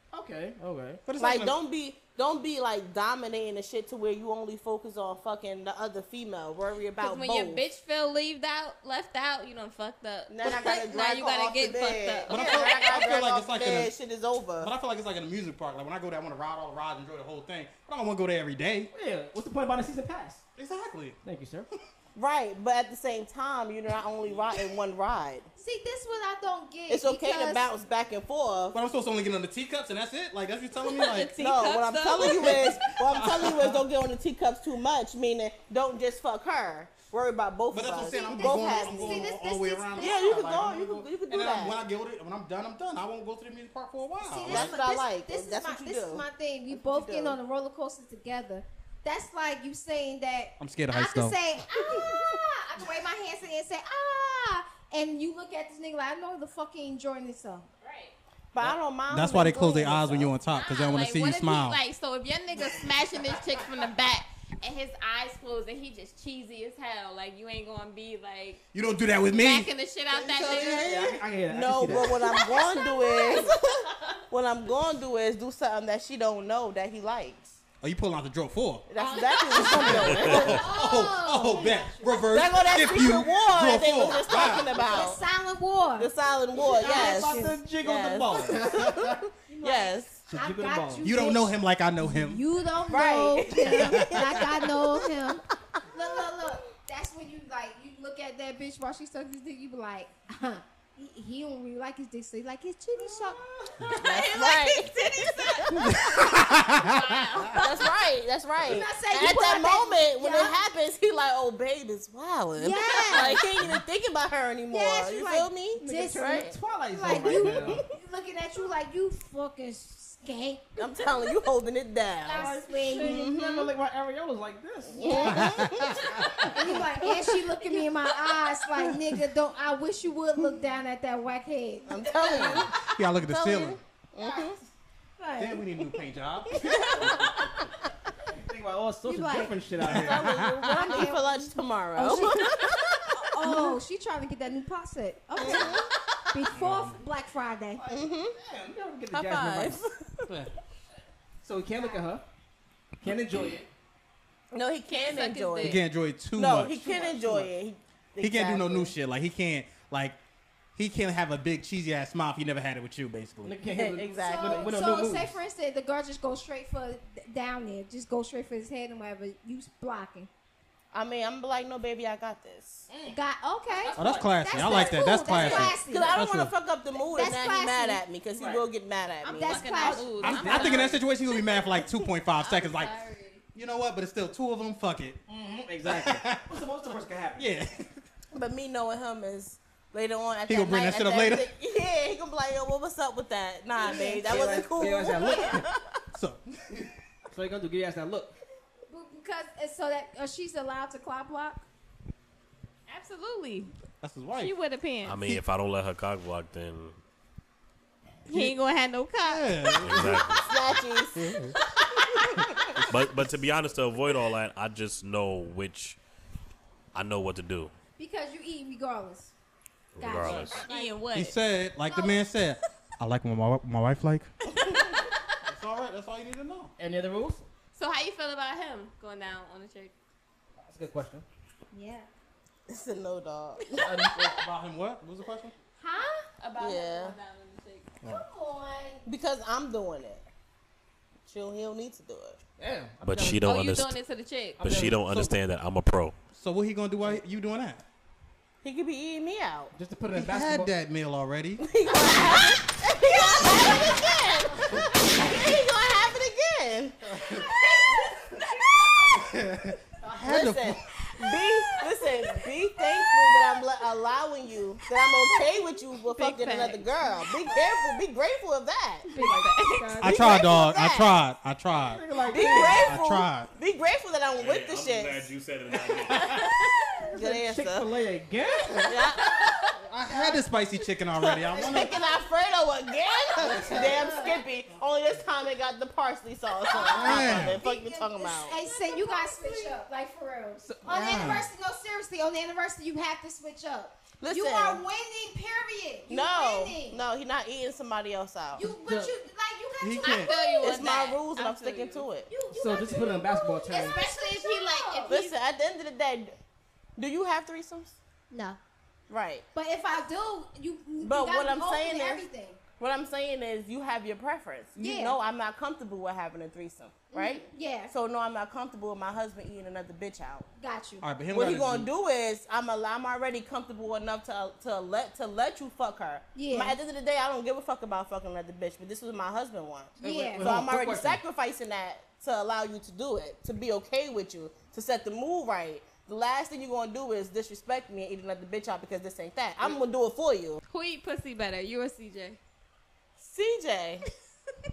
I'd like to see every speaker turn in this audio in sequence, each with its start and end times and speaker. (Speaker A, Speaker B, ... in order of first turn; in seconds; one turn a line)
Speaker A: 0.1-1.5
Speaker B: 1.1-7.6
Speaker C: 7.0-13.0
Speaker B: 10.3-14.7
Speaker D: 12.3-13.9
Speaker D: 14.6-18.9
Speaker A: 18.9-20.4
Speaker D: 20.6-21.2
Speaker A: 21.2-21.7
Speaker B: 22.2-25.5
Speaker E: 25.6-27.7
Speaker B: 26.9-28.8
Speaker D: 28.7-31.3
Speaker C: 31.0-32.8
Speaker B: 31.4-39.3
Speaker D: 32.2-33.9
Speaker D: 37.7-44.7
Speaker E: 38.1-40.5
Speaker B: 40.0-41.8
Speaker E: 44.2-57.7
Speaker B: 44.5-47.4
Speaker D: 50.6-51.4
Speaker C: 57.8-58.1
Speaker B: 58.5-60.3
Speaker D: 58.6-61.8
Speaker C: 60.5-68.6
Speaker D: 68.7-69.7
Speaker C: 69.3-71.2
Speaker B: 70.2-73.6
Speaker A: 70.3-72.3
Speaker C: 72.3-74.2
Speaker B: 74.3-77.6
Speaker D: 77.8-78.9
Speaker B: 78.9-80.7
Speaker C: 79.0-80.1
Speaker D: 79.6-84.7
Speaker F: 80.0-80.5
Speaker E: 80.2-82.3
Speaker B: 82.3-85.2
Speaker E: 84.0-87.6
Speaker B: 86.0-90.3
Speaker A: 86.6-88.7
Speaker D: 88.6-89.2
Speaker E: 89.5-103.4
Speaker A: 90.3-91.2
Speaker D: 91.0-92.4
Speaker B: 92.9-95.0
Speaker D: 93.7-94.4
Speaker B: 96.0-96.2
Speaker A: 103.0-103.9
Speaker C: 103.9-107.9
Speaker B: 104.0-105.8
Speaker D: 105.7-107.6
Speaker B: 107.6-117.8
Speaker E: 108.6-110.6
Speaker E: 112.6-113.4
Speaker E: 114.7-121.3
Speaker A: 115.8-117.8
Speaker B: 120.8-123.7
Speaker E: 122.3-123.3
Speaker C: 122.3-123.0
Speaker A: 122.9-125.6
Speaker B: 124.9-127.8
Speaker E: 125.0-125.5
Speaker D: 125.3-126.5
Speaker E: 126.5-132.6
Speaker B: 131.9-134.6
Speaker A: 132.2-132.7
Speaker D: 132.8-133.8
Speaker E: 134.2-135.6
Speaker D: 135.4-137.3
Speaker B: 136.5-137.7
Speaker A: 138.3-140.4
Speaker E: 139.1-139.6
Speaker D: 139.8-141.1
Speaker B: 139.9-143.7
Speaker E: 140.3-142.4
Speaker E: 143.2-147.8
Speaker B: 145.4-146.2
Speaker D: 146.5-147.0
Speaker A: 147.8-149.9
Speaker B: 147.9-148.3
Speaker B: 149.1-150.3
Speaker D: 150.3-150.5
Speaker A: 151.4-152.2
Speaker A: 153.0-153.7
Speaker B: 154.5-158.9
Speaker C: 154.9-155.8
Speaker D: 155.6-157.0
Speaker A: 156.9-157.5
Speaker D: 158.2-160.2
Speaker D: 160.8-163.6
Speaker A: 163.4-165.4
Speaker B: 163.7-164.7
Speaker E: 164.2-170.3
Speaker B: 170.9-172.9
Speaker A: 172.9-173.2
Speaker E: 173.1-176.2
Speaker C: 173.7-174.3
Speaker A: 173.9-174.3
Speaker D: 174.0-176.5
Speaker B: 175.3-179.7
Speaker E: 177.1-178.0
Speaker A: 178.4-178.7
Speaker C: 179.2-183.4
Speaker E: 179.3-180.1
Speaker A: 179.8-181.1
Speaker D: 180.2-183.0
Speaker D: 183.5-185.2
Speaker A: 185.3-187.6
Speaker D: 185.8-186.6
Speaker D: 187.4-188.0
Speaker B: 188.3-196.0
Speaker D: 190.5-191.5
Speaker E: 193.8-194.6
Speaker A: 194.0-195.7
Speaker E: 195.1-195.5
Speaker D: 196.1-196.9
Speaker A: 197.3-198.3
Speaker E: 198.9-201.7
Speaker C: 202.9-203.7
Speaker D: 204.0-204.5
Speaker C: 204.3-205.2
Speaker F: 205.1-207.0
Speaker C: 208.3-209.7
Speaker D: 208.3-208.6
Speaker D: 209.2-210.3
Speaker F: 209.8-210.8
Speaker B: 210.4-211.5
Speaker D: 211.2-211.6
Speaker B: 212.0-212.8
Speaker D: 212.4-213.1
Speaker F: 212.8-216.0
Speaker F: 216.9-217.7
Speaker E: 218.0-219.3
Speaker F: 219.9-220.6
Speaker E: 220.0-220.9
Speaker D: 220.2-220.5
Speaker C: 220.3-221.4
Speaker D: 221.1-224.3
Speaker B: 224.6-224.9
Speaker D: 225.4-226.7
Speaker A: 226.8-227.5
Speaker C: 227.7-229.9
Speaker A: 230.6-231.2
Speaker E: 231.7-232.1
Speaker B: 232.7-234.0
Speaker A: 233.8-234.4
Speaker D: 234.2-235.6
Speaker E: 235.8-236.3
Speaker C: 236.4-237.9
Speaker B: 236.6-237.2
Speaker E: 238.0-239.1
Speaker B: 239.1-240.2
Speaker B: 241.3-242.4
Speaker A: 242.6-243.4
Speaker F: 243.0-244.0
Speaker C: 243.4-244.7
Speaker A: 244.6-245.1
Speaker F: 244.6-246.1
Speaker D: 245.1-245.4
Speaker D: 246.3-247.8
Speaker B: 248.6-249.8
Speaker A: 249.8-250.7
Speaker D: 250.1-251.6
Speaker B: 251.6-257.2
Speaker D: 257.1-257.5
Speaker C: 257.5-259.1
Speaker D: 259.1-260.8
Speaker B: 260.2-269.1
Speaker C: 261.0-263.6
Speaker C: 266.1-267.3
Speaker C: 269.1-270.4
Speaker A: 269.2-270.0
Speaker D: 270.0-272.0
Speaker B: 270.0-271.2
Speaker A: 271.7-272.9
Speaker B: 272.2-275.3
Speaker D: 272.7-273.5
Speaker F: 274.3-276.5
Speaker D: 276.1-276.5
Speaker B: 277.1-277.9
Speaker A: 277.2-279.0
Speaker B: 278.9-279.5
Speaker D: 279.8-282.0
Speaker E: 280.1-280.5
Speaker A: 281.2-282.0
Speaker B: 281.2-288.6
Speaker D: 283.4-284.2
Speaker E: 283.8-284.4
Speaker E: 286.7-297.0
Speaker D: 286.8-287.6
Speaker A: 290.6-291.4
Speaker D: 290.9-291.5
Speaker B: 294.2-294.8
Speaker B: 296.1-298.6
Speaker E: 298.5-300.8
Speaker A: 298.6-299.1
Speaker D: 299.8-300.4
Speaker C: 300.0-302.1
Speaker B: 300.6-302.3
Speaker E: 302.3-305.1
Speaker A: 302.5-304.0
Speaker C: 303.8-305.4
Speaker B: 305.1-306.4
Speaker B: 307.0-308.0
Speaker E: 308.3-308.6
Speaker B: 309.1-309.4
Speaker E: 309.5-312.6
Speaker B: 311.0-312.3
Speaker B: 312.8-320.5
Speaker E: 314.8-315.2
Speaker E: 317.1-317.9
Speaker E: 320.6-321.1
Speaker D: 321.0-321.9
Speaker B: 321.3-340.6
Speaker E: 326.4-326.8
Speaker E: 330.0-330.5
Speaker A: 330.0-331.2
Speaker C: 340.7-342.4
Speaker B: 343.2-344.1